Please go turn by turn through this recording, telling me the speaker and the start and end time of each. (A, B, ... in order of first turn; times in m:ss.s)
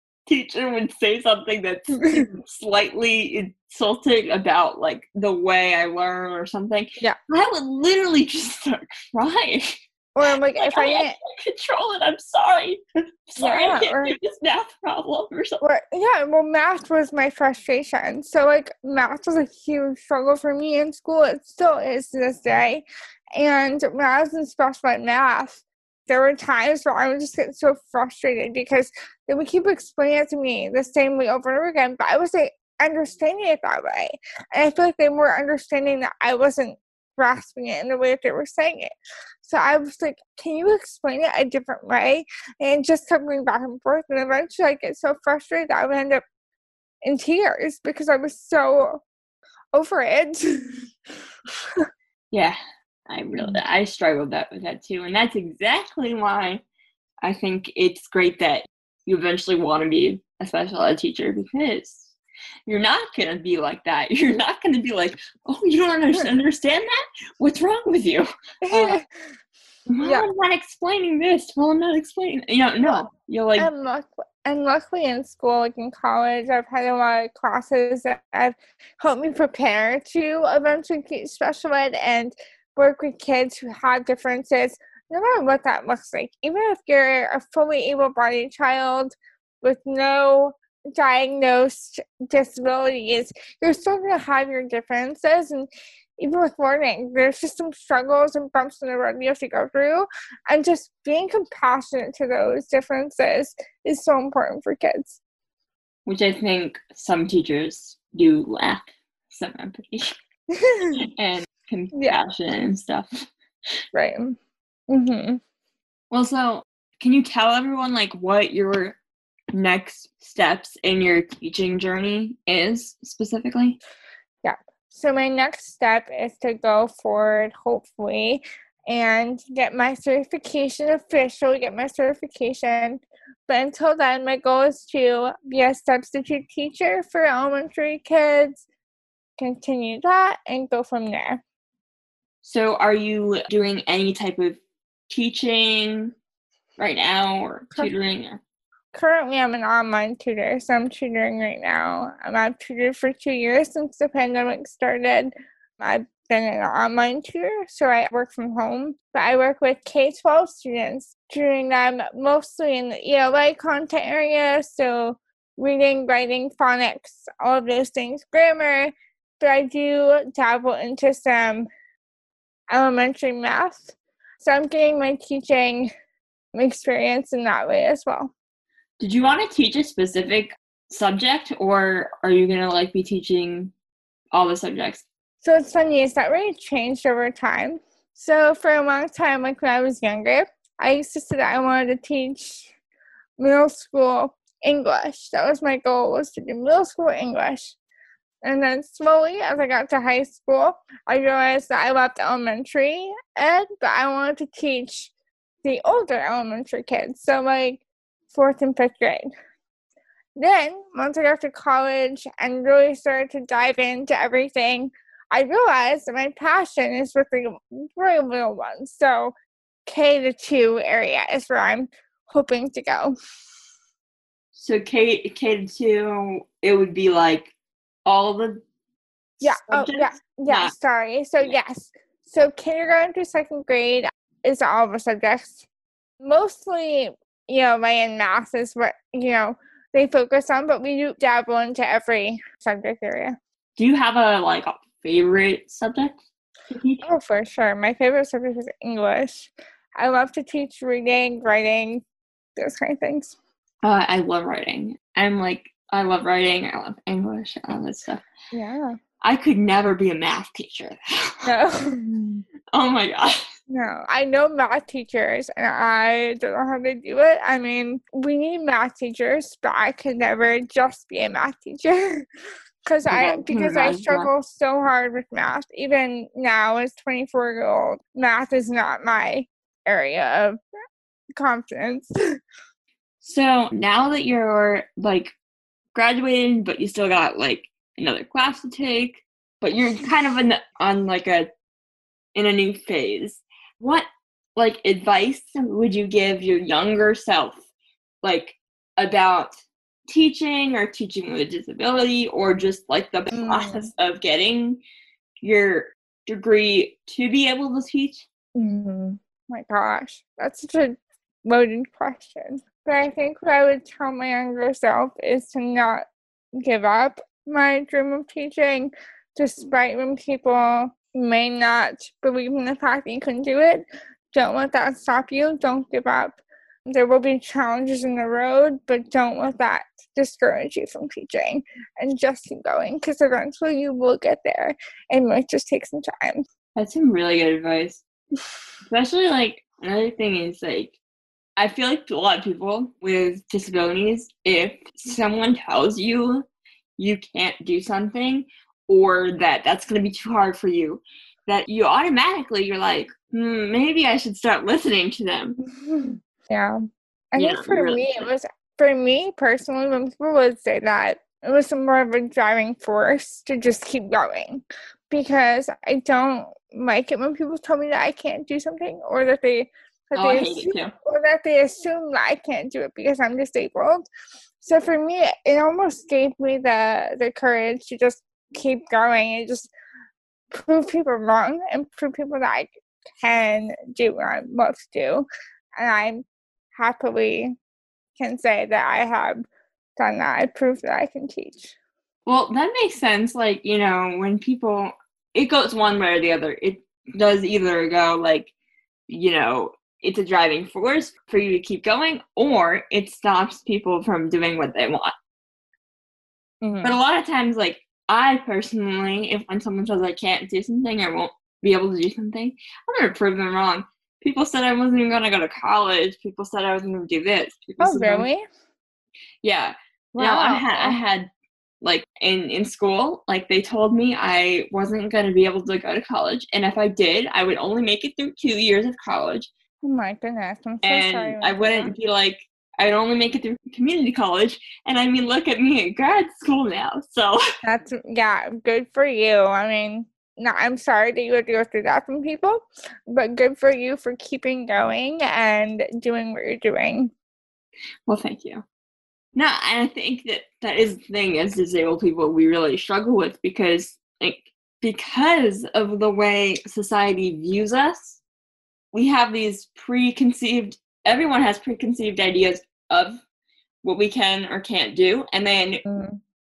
0:00.3-0:15.6 A
0:10.2-0:11.2 B
0:13.4-0:14.2 B
0:15.6-0:38.9 B
0:39.4-0:46.2 B
0:47.0-0:49.0 B
0:49.7-0:50.9 B
0:52.3-0:52.6 A
0:53.1-0:56.6 A
0:57.2-1:02.1 A
1:02.7-1:09.0 A
1:08.7-1:09.0 B
1:09.9-1:13.7 A
1:10.0-1:10.3 B
1:12.9-1:35.7 B
1:36.2-1:45.2 B
1:46.1-1:50.2 A
1:50.5-1:51.0 B
1:51.1-1:53.3 A
1:51.9-1:52.2 B
1:53.9-1:54.4 B
1:54.9-1:55.4 B
1:56.1-1:59.0 A
1:59.5-2:03.8 A
2:04.4-2:18.6 B
2:19.4-2:21.4 B
2:22.4-2:26.1 A
2:26.8-2:28.4 A
2:28.9-2:51.7 B
2:52.7-2:55.9 B
2:56.5-2:58.3 B
2:59.0-3:03.7 A
3:04.3-3:05.0 A
3:05.4-3:12.7 B
3:13.4-3:17.8 B
3:18.4-3:25.1 B
3:25.6-3:29.3 B
3:30.4-3:39.3 B
3:39.9-3:43.2 B
3:44.5-3:47.5 A
3:48.1-3:48.6 A
3:49.4-3:50.7 A
3:49.4-3:55.6 B
3:56.2-4:03.4 B
4:03.8-4:06.2 A
4:06.7-4:07.0 A
4:07.0-4:12.0 B
4:12.6-4:13.4 B
4:13.8-4:18.2 A
4:18.5-4:19.0 B
4:19.2-4:21.4 A
4:21.4-4:22.4 B
4:22.7-4:23.4 A
4:23.7-4:32.2 B
4:32.9-4:40.6 B
4:33.1-4:34.3 A
4:41.4-4:42.1 B
4:43.2-4:45.4 A
4:46.0-4:51.5 A
4:52.4-4:57.6 A
4:58.2-5:04.8 A
5:03.3-5:03.9 B
5:05.4-5:08.3 A
5:08.6-5:16.1 B
5:16.6-5:36.4 B
5:36.8-5:38.0 A
5:38.9-5:41.0 A
5:41.6-5:46.5 A
5:47.0-5:55.6 A
5:55.7-5:56.8 B
5:57.3-6:14.0 B
5:57.4-5:58.3 A
6:10.2-6:10.9 A
6:14.6-6:19.7 B
6:20.5-6:25.3 B
6:25.8-6:26.2 B
6:26.7-6:27.6 B
6:28.2-6:29.4 B
6:30.0-6:31.8 B
6:32.3-6:38.5 A
6:39.1-6:45.1 A
6:46.6-6:47.0 B
6:46.8-6:58.3 A
6:57.8-6:58.4 B
6:59.4-7:01.3 A
7:00.2-7:01.0 B
7:01.8-7:09.5 A
7:09.8-7:11.9 B
7:10.8-7:17.4 A
7:17.6-7:27.1 B
7:28.1-7:28.6 A
7:29.4-7:38.2 A
7:38.9-7:43.2 A
7:43.8-7:45.8 A
7:45.9-7:46.2 B